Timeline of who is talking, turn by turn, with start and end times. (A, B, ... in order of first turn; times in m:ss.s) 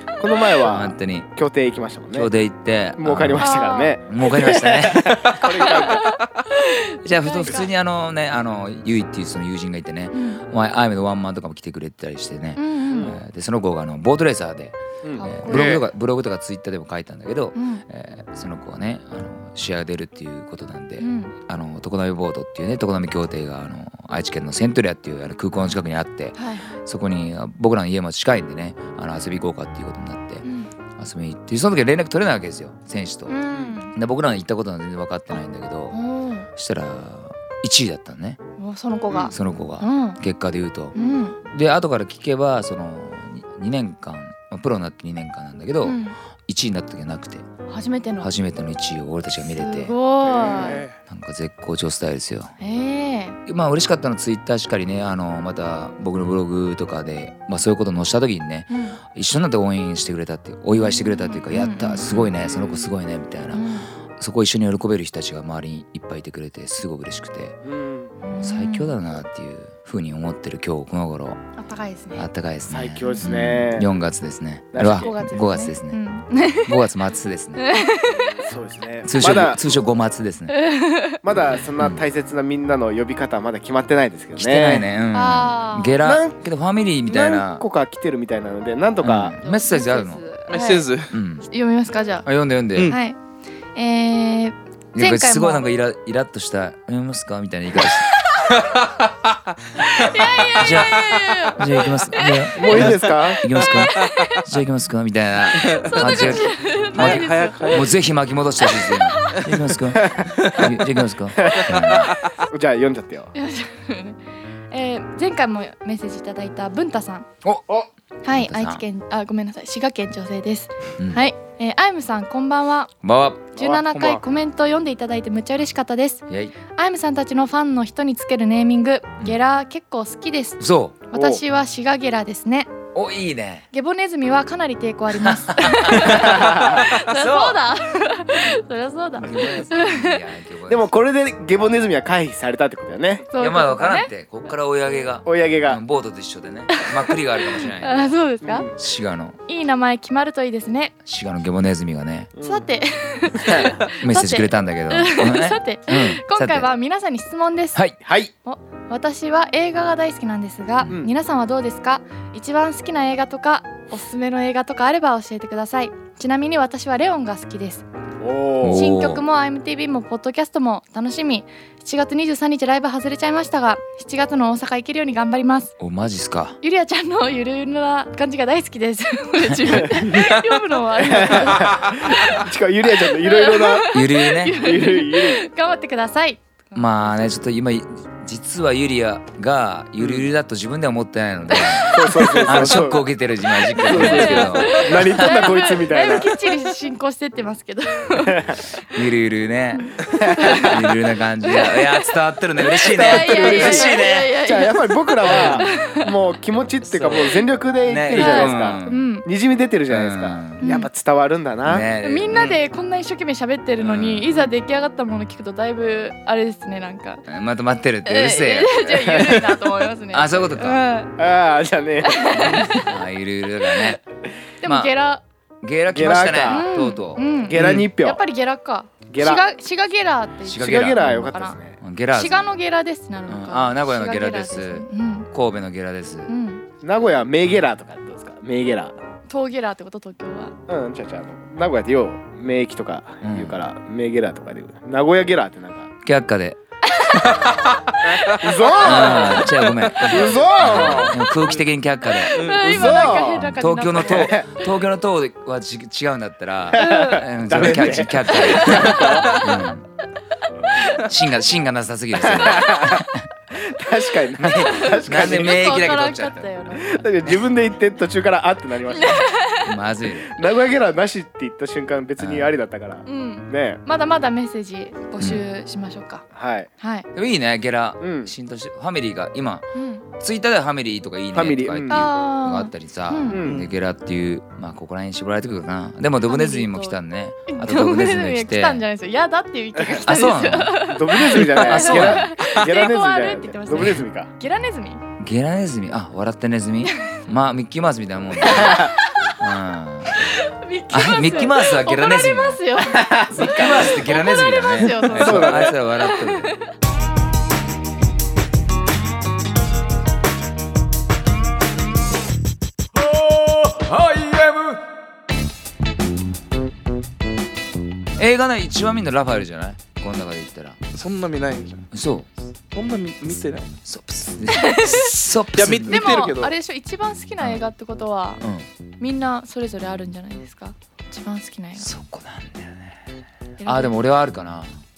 0:00.2-0:02.3 A
0:00.6-0:01.3 B
0:02.1-0:03.5 B
0:03.0-0:06.2 A
0:03.4-0:04.0 C
0:04.1-0:05.6 B
0:05.6-0:07.7 C
0:07.0-0:30.4 B
0:10.1-0:10.4 C
0:12.6-0:13.2 C
0:12.9-0:13.2 A
0:15.0-0:15.3 A
0:15.2-0:15.8 C
0:15.5-0:15.9 D
0:17.6-0:17.8 C
0:21.0-0:21.3 C
0:26.4-0:26.8 C
0:30.4-0:30.7 C
0:31.0-0:33.4 B
0:33.3-0:34.0 C
0:33.9-0:36.0 B
0:35.9-0:36.5 C
0:36.6-0:38.4 B
0:38.6-0:40.2 C
0:39.1-0:47.5 B
0:40.9-0:41.4 C
0:45.8-0:46.2 C
0:47.7-0:48.3 C
0:48.2-0:50.0 B
0:49.5-0:50.8 C
0:50.2-0:50.8 A
0:50.4-0:51.0 D
0:51.1-0:52.5 B
0:52.6-0:53.4 C
0:53.5-1:03.6 B
0:58.7-0:59.0 C
1:00.8-1:02.3 C
1:02.4-1:02.9 A
1:03.5-1:03.9 C
1:04.2-1:07.6 B
1:07.6-1:08.2 A
1:08.2-1:09.0 C
1:08.4-1:11.4 B
1:11.6-1:12.3 C
1:12.1-1:16.0 B
1:12.7-1:13.9 A
1:14.7-1:15.2 A
1:14.8-1:16.7 C
1:16.6-1:17.6 B
1:17.6-1:18.4 C
1:18.4-1:19.7 A
1:19.0-1:20.6 B
1:20.5-1:21.2 C
1:21.2-1:24.9 A
1:24.4-1:27.6 B
1:25.1-1:26.0 C
1:26.0-1:26.3 A
1:27.1-1:29.4 A
1:29.0-1:30.2 B
1:29.4-1:30.9 C
1:30.5-1:31.2 D
1:31.1-1:31.5 B
1:31.5-1:32.3 C
1:32.2-1:33.0 B
1:32.8-1:33.2 C
1:33.8-1:35.7 C
1:34.9-1:38.1 B
1:38.5-1:39.1 D
1:39.8-1:42.5 C
1:40.0-1:41.3 D
1:40.6-1:52.2 B
1:42.6-1:43.5 A
1:43.6-1:44.1 D
1:43.8-1:44.4 C
1:45.6-1:46.4 D
1:45.9-1:47.8 C
1:46.9-1:48.0 D
1:48.6-1:49.5 C
1:50.0-1:50.3 A
1:50.4-1:50.6 D
1:51.4-1:53.3 A
1:53.3-1:54.2 C
1:54.7-1:57.3 C
1:57.4-1:57.7 B
1:58.2-2:02.9 C
1:58.3-1:58.8 B
2:01.0-2:01.2 B
2:03.0-2:03.5 B
2:03.6-2:12.7 C
2:03.6-2:04.2 A
2:06.3-2:06.5 B
2:10.6-2:11.0 B
2:11.1-2:11.4 A
2:12.9-2:13.7 B
2:13.7-2:20.2 C
2:15.1-2:17.6 B
2:16.0-2:16.8 A
2:19.2-2:20.9 B
2:20.7-2:23.3 A
2:23.3-2:24.1 C
2:23.4-2:28.1 B
2:25.2-2:25.8 A
2:27.6-2:28.7 C
2:28.4-2:28.7 A
2:28.7-2:29.4 B
2:29.5-2:30.9 C
2:31.0-2:32.3 B
2:32.4-2:32.7 A
2:32.4-2:37.8 C
2:33.4-2:33.7 A
2:34.0-2:36.7 B
2:38.0-2:38.3 A
2:38.4-2:47.8 C
2:48.2-2:48.9 A
2:48.6-2:49.2 B
2:48.7-2:55.7 C
2:55.8-2:56.6 B
2:56.6-3:02.3 C
2:59.4-2:59.9 B
3:00.0-3:00.6 D
3:01.0-3:03.9 A
3:03.2-3:07.2 C
3:03.9-3:04.7 B
3:04.5-3:05.4 A
3:06.8-3:15.6 B
3:10.0-3:10.3 A
3:11.5-3:11.9 C
3:11.9-3:13.0 A
3:12.1-3:12.8 D
3:13.8-3:18.6 C
3:13.8-3:16.3 A
3:18.2-3:18.6 A
3:18.9-3:20.0 B
3:19.8-3:20.9 C
3:20.2-3:20.8 A
3:20.5-3:24.3 B
3:21.4-3:22.1 C
3:22.8-3:31.9 A
3:23.0-3:26.1 C
3:25.2-3:25.7 B
3:26.8-3:29.1 B
3:28.1-3:29.3 C
3:29.9-3:30.6 B
3:30.6-3:30.9 C
3:31.6-3:32.6 B
3:32.0-3:37.2 C
3:33.8-3:34.3 B
3:37.3-3:39.5 B
3:38.0-3:41.2 C
3:38.9-3:39.7 A
3:40.1-3:40.8 B
3:41.2-3:42.8 A
3:42.0-3:42.9 C
3:42.8-3:44.0 B
3:44.6-3:45.2 C
3:44.6-3:44.9 B
3:45.6-3:47.9 B
3:45.9-3:46.7 A
3:46.5-3:51.6 C
3:47.4-3:48.2 A
3:49.1-3:49.4 A
3:50.5-3:52.5 B
3:50.6-3:51.8 A
3:52.1-3:55.3 C
3:53.3-3:56.3 B
3:56.3-3:56.6 C
3:56.8-3:59.0 A
3:59.3-4:00.6 C
4:00.7-4:05.9 A
4:03.2-4:03.6 B
4:06.0-4:06.6 B
4:06.9-4:07.3 C
4:07.2-4:08.5 D
4:08.0-4:11.2 A
4:08.6-4:09.2 C
4:08.8-4:19.9 B
4:09.3-4:11.6 D
4:12.3-4:14.4 C
4:12.4-4:12.7 D
4:12.6-4:14.5 A
4:16.7-4:19.5 A
4:16.8-4:17.3 C
4:17.5-4:18.0 D
4:18.3-4:19.5 C
4:20.7-4:21.1 C
4:21.0-4:23.3 B
4:22.2-4:25.7 A
4:24.4-4:26.5 B
4:24.6-4:27.1 C
4:26.8-4:29.3 A
4:28.9-4:29.7 C
4:29.6-4:30.4 B
4:30.2-4:33.8 A
4:32.2-4:32.5 B
4:33.0-4:36.3 C
4:36.3-4:36.7 A
4:36.8-4:37.1 C
4:37.1-4:39.7 B
4:38.0-4:38.3 A
4:39.8-4:40.1 C
4:40.2-4:48.8 B
4:41.3-4:42.1 A
4:41.9-4:43.4 C
4:43.3-4:43.7 A
4:46.3-4:55.0 C
4:49.9-4:54.3 A
4:50.0-4:50.9 B
4:51.6-4:52.4 B
4:55.2-5:00.4 B
4:56.8-4:57.2 C
4:58.4-4:59.3 C
4:58.5-4:58.9 A
5:00.2-5:06.7 C
5:00.9-5:02.8 B
5:02.8-5:04.0 A
5:03.3-5:06.5 B
5:05.1-5:05.8 A
5:13.1-5:14.8 B
5:18.2-5:20.8 B
5:20.9-5:21.9 D
5:21.9-5:22.3 B
5:22.7-5:23.7 D
5:23.8-5:26.2 B
5:24.5-5:25.1 C
5:25.5-5:26.5 D
5:25.9-5:28.4 C
5:28.4-5:28.7 B
5:29.0-5:31.9 C
5:31.8-5:33.0 B
5:33.6-5:34.0 C
5:33.6-5:34.8 B